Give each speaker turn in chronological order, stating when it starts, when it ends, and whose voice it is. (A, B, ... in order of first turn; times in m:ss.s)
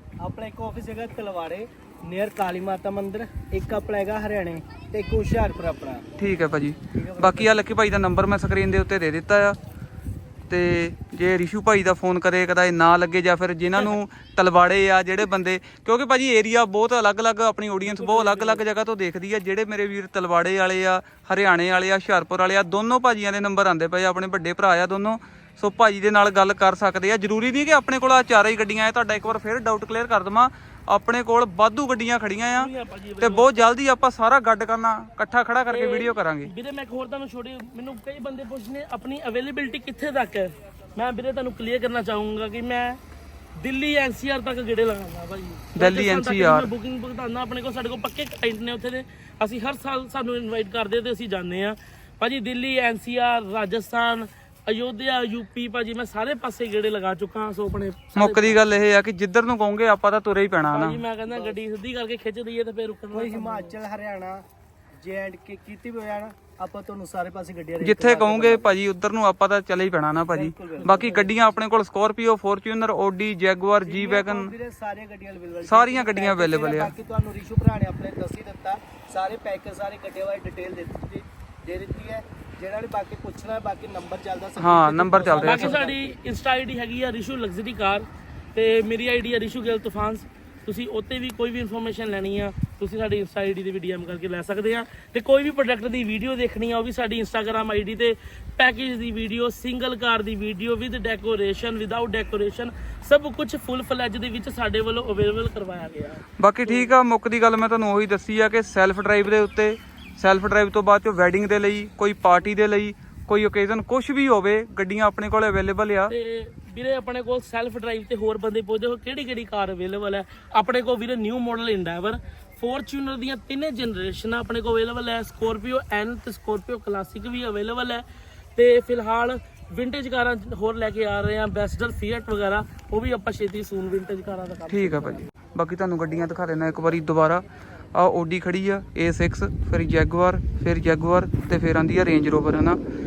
0:00.2-0:06.0 A
0:06.2-0:09.6 B
0:06.9-0:07.6 A
0:10.5-0:32.7 B
0:17.8-0:18.6 C
0:32.6-0:33.5 C
0:33.2-0:36.5 B
0:35.7-0:43.0 C
0:43.6-0:58.6 C
0:45.7-0:46.7 B
0:58.2-1:01.0 B
1:00.7-1:03.7 C
1:01.3-1:01.6 A
1:03.1-1:04.4 A
1:05.0-1:08.7 A
1:07.8-1:14.5 B
1:10.3-1:11.3 A
1:10.8-1:11.3 C
1:13.8-1:26.2 A
1:15.7-1:16.9 B
1:24.6-1:25.8 B
1:25.4-1:46.9 C
1:46.4-1:56.1 B
1:56.1-2:08.0 C
2:08.6-2:15.2 C
2:14.7-2:17.4 B
2:17.9-2:22.8 B